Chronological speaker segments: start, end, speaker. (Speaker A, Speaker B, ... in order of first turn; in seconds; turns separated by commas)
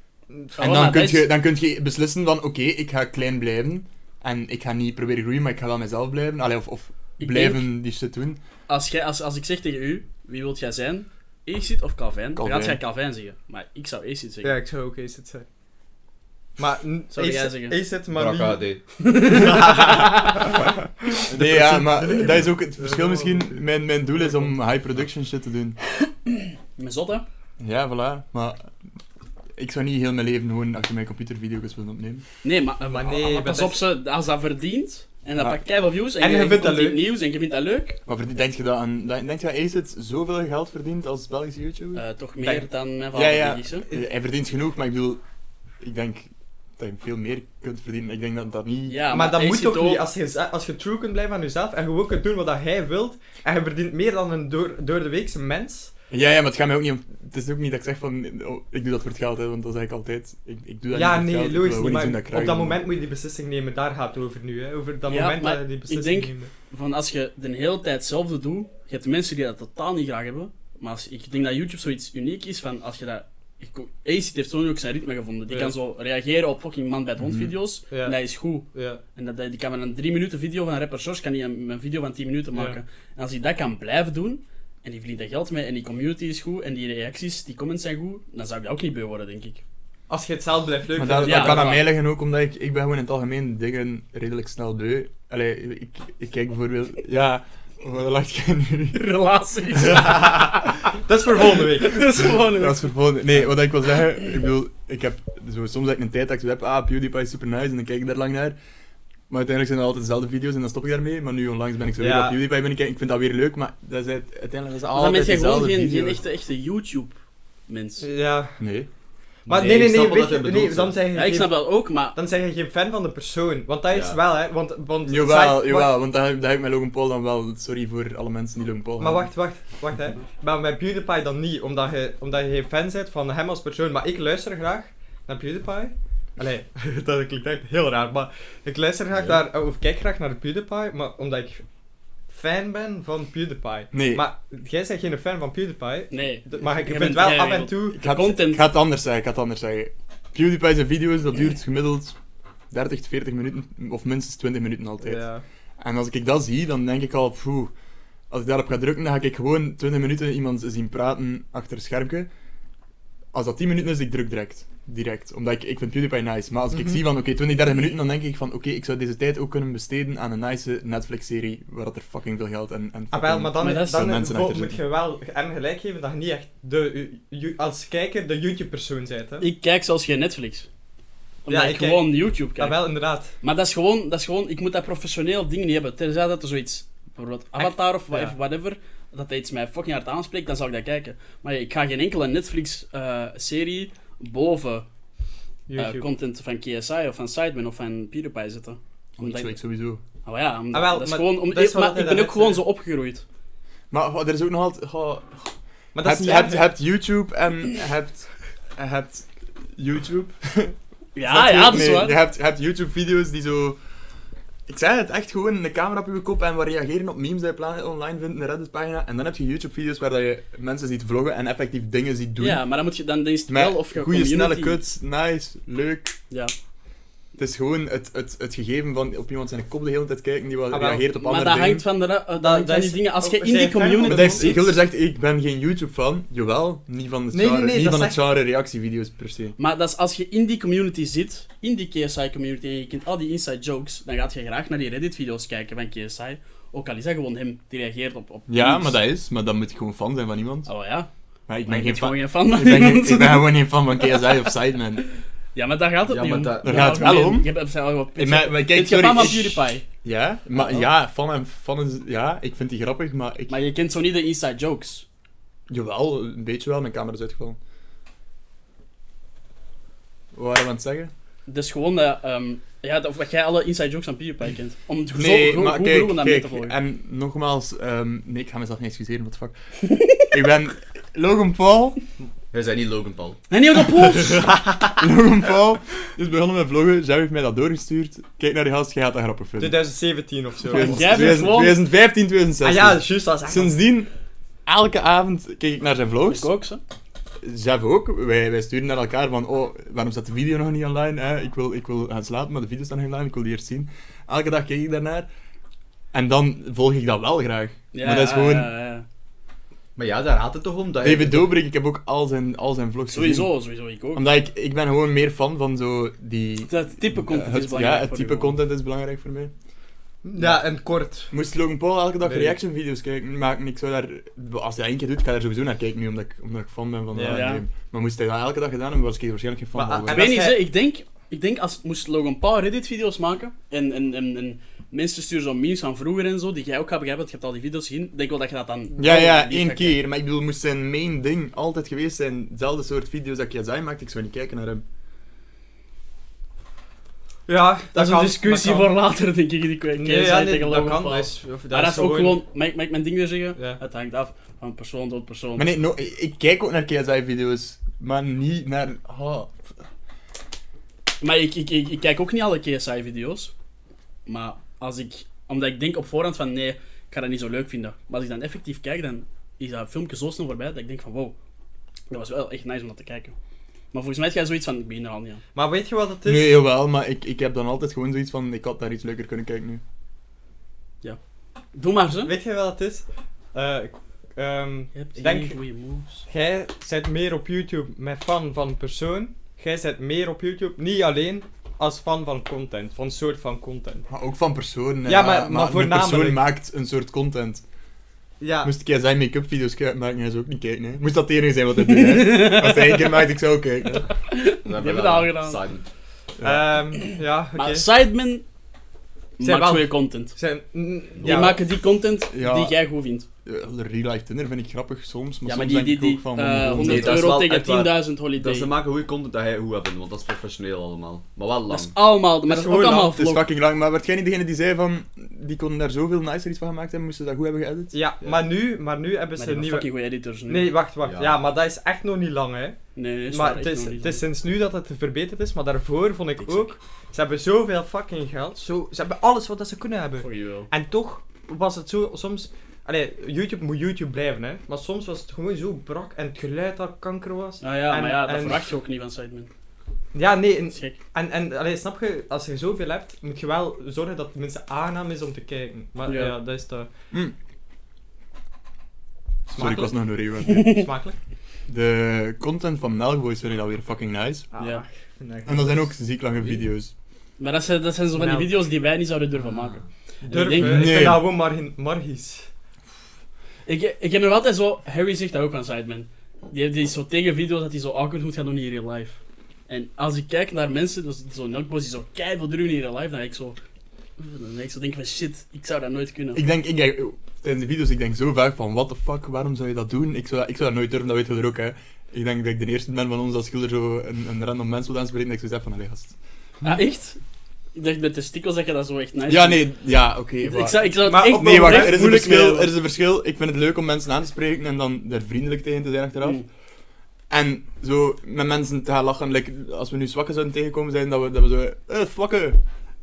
Speaker A: 0.3-0.6, Speaker B: 0.6-1.3, Speaker C: 0.6-8.4, Speaker B: 7.2-7.7, Speaker B: 8.7-14.6, Speaker C: 12.4-12.8, Speaker A: 14.4-15.5, Speaker A: 16.6-18.7, Speaker B: 17.1-17.8, Speaker D: 18.1-19.4, Speaker B: 19.0-20.4, Speaker A: 19.4-20.6, Speaker A: 21.2-23.6, Speaker C: 21.3-25.8, Speaker A: 24.2-24.5, Speaker B: 26.3-27.2, Speaker C: 27.6-28.7, Speaker C: 29.6-32.2, Speaker B: 32.4-38.0, Speaker A: 32.8-33.8, Speaker A: 36.2-37.0, Speaker C: 38.1-42.0, Speaker B: 42.0-43.9, Speaker A: 42.4-42.7, Speaker C: 43.1-45.2, Speaker C: 45.8-49.1, Speaker B: 48.9-50.1, Speaker A: 49.1-55.9, Speaker C: 56.1-62.8, Speaker A: 60.9-66.5, Speaker B: 65.1-89.6, Speaker A: 75.5-75.8, Speaker C: 77.2-77.5, Speaker A: 77.9-79.0, Speaker A: 82.5-82.8, Speaker A: 90.1-91.9, Speaker C: 91.0-99.1, Speaker B: 91.2-91.8, Speaker B: 98.9-100.5, Speaker C: 99.7-100.4, Speaker A: 100.0-102.3, Speaker B: 101.8-103.0, Speaker C: 102.3-108.6, Speaker C: 109.3-116.2, Speaker A: 112.0-112.4, Speaker B: 114.9-118.1, Speaker A: 118.0-118.7, Speaker C: 118.6-118.9, Speaker D: 119.5-121.0, Speaker A: 119.5-126.0, Speaker B: 121.1-122.2, Speaker D: 123.9-124.2, Speaker C: 125.0-129.3, Speaker A: 129.0-141.7, Speaker A: 142.3-148.0, Speaker C: 143.9-144.2, Speaker B: 146.1-148.7, Speaker C: 147.9-152.2, Speaker C: 152.7-155.2, Speaker A: 155.0-155.4, Speaker C: 155.8-157.7, Speaker C: 158.3-162.3, Speaker C: 163.3-174.8, Speaker A: 166.7-167.0, Speaker A: 173.1-179.5, Speaker B: 173.6-174.1, Speaker B: 179.4-180.7, Speaker B: 181.4-182.8, Speaker A: 181.5-183.3, Speaker B: 183.4-194.9, Speaker A: 187.6-188.4, Speaker A: 195.7-196.1, Speaker B: 195.8-199.6, Speaker C: 199.2-200.0, Speaker B: 200.2-203.2, Speaker A: 200.7-202.6, Speaker C: 203.9-213.8, Speaker A: 205.9-206.7, Speaker B: 211.2-212.2, Speaker C: 214.7-222.6, Speaker B: 222.4-224.8, Speaker C: 223.5-226.2, Speaker C: 227.4-231.9, Speaker A: 230.7-231.1, Speaker B: 231.2-234.7, Speaker A: 232.4-234.7, Speaker C: 234.1-239.6, Speaker A: 237.3-238.2, Speaker B: 239.6-249.0, Speaker C: 248.5-250.7, Speaker B: 250.7-251.1, Speaker C: 251.5-255.0, Speaker B: 251.7-254.3, Speaker B: 255.6-259.9, Speaker D: 256.1-257.2, Speaker C: 256.6-257.5, Speaker C: 258.2-263.6, Speaker B: 260.6-260.8, Speaker B: 263.5-265.1, Speaker C: 265.7-267.6, Speaker C: 270.3-271.1, Speaker B: 271.5-276.8, Speaker C: 275.1-279.5, Speaker B: 279.8-280.3, Speaker C: 280.1-282.0, Speaker D: 282.5-283.4, Speaker B: 283.5-284.5, Speaker C: 285.0-289.8, Speaker A: 289.6-291.5, Speaker C: 290.7-294.1, Speaker B: 290.7-291.9, Speaker A: 292.6-293.8, Speaker C: 294.7-296.5, Speaker B: 296.3-296.8, Speaker C: 297.4-305.3, Speaker C: 306.1-308.7, Speaker B: 307.9-309.1, Speaker D: 310.0-311.6, Speaker C: 311.0-313.5, Speaker B: 313.1-314.3, Speaker C: 314.1-319.5, Speaker B: 316.7-318.6, Speaker A: 320.2-321.3, Speaker C: 320.4-320.6, Speaker C: 321.3-330.3, Speaker A: 322.2-322.6, Speaker A: 327.1-327.5, Speaker B: 327.3-327.6, Speaker A: 329.8-330.7, Speaker B: 330.1-340.0, Speaker C: 339.0-344.8, Speaker A: 347.5-348.9, Speaker B: 347.9-355.7, Speaker A: 350.0-352.4, Speaker A: 353.6-353.8, Speaker C: 355.6-359.7, Speaker B: 361.2-363.5, Speaker B: 364.3-371.3, Speaker B: 372.1-373.4, Speaker B: 373.9-375.4, Speaker A: 375.6-376.6, Speaker C: 376.2-379.8, Speaker B: 381.7-382.3, Speaker A: 382.2-385.6, Speaker B: 384.9-386.3, Speaker A: 386.3-394.1, Speaker C: 394.1-397.6, Speaker A: 395.1-396.4, Speaker A: 398.4-398.7, Speaker C: 398.6-404.1, Speaker B: 401.9-403.1, Speaker B: 404.1-405.6, Speaker D: 404.6-405.8, Speaker C: 406.4-406.8, Speaker A: 406.4-407.9, Speaker B: 407.5-408.4, Speaker B: 409.4-410.4, Speaker A: 409.4-411.6, Speaker D: 411.2-411.5, Speaker B: 411.2-413.3, Speaker C: 412.3-412.8, Speaker C: 413.4-417.3, Speaker B: 415.5-418.7, Speaker D: 416.7-422.0, Speaker B: 421.7-423.5, Speaker A: 422.4-423.2, Speaker C: 423.1-427.9, Speaker A: 427.9-429.9, Speaker D: 428.2-428.5, Speaker B: 429.4-430.7, Speaker A: 430.5-432.8, Speaker D: 431.1-431.4, Speaker B: 433.0-434.2, Speaker A: 433.3-448.7, Speaker B: 436.4-436.7, Speaker B: 440.2-440.7, Speaker B: 447.6-449.5, Speaker A: 450.1-456.9, Speaker B: 450.7-451.0, Speaker B: 456.1-456.4, Speaker A: 459.5-461.2, Speaker C: 459.5-460.9, Speaker C: 461.7-464.5, Speaker A: 464.5-465.9, Speaker B: 464.6-464.8, Speaker C: 465.4-466.9, Speaker B: 467.4-471.1, Speaker A: 468.1-468.6, Speaker A: 470.2-472.5, Speaker C: 470.5-471.3, Speaker B: 473.7-483.6, Speaker B: 484.2-486.4, Speaker C: 486.3-496.1, Speaker B: 496.6-497.2, Speaker B: 497.8-499.7, Speaker C: 499.3-506.4, Speaker B: 500.4-502.7, Speaker A: 501.0-502.4, Speaker B: 506.2-506.5, Speaker C: 507.3-512.6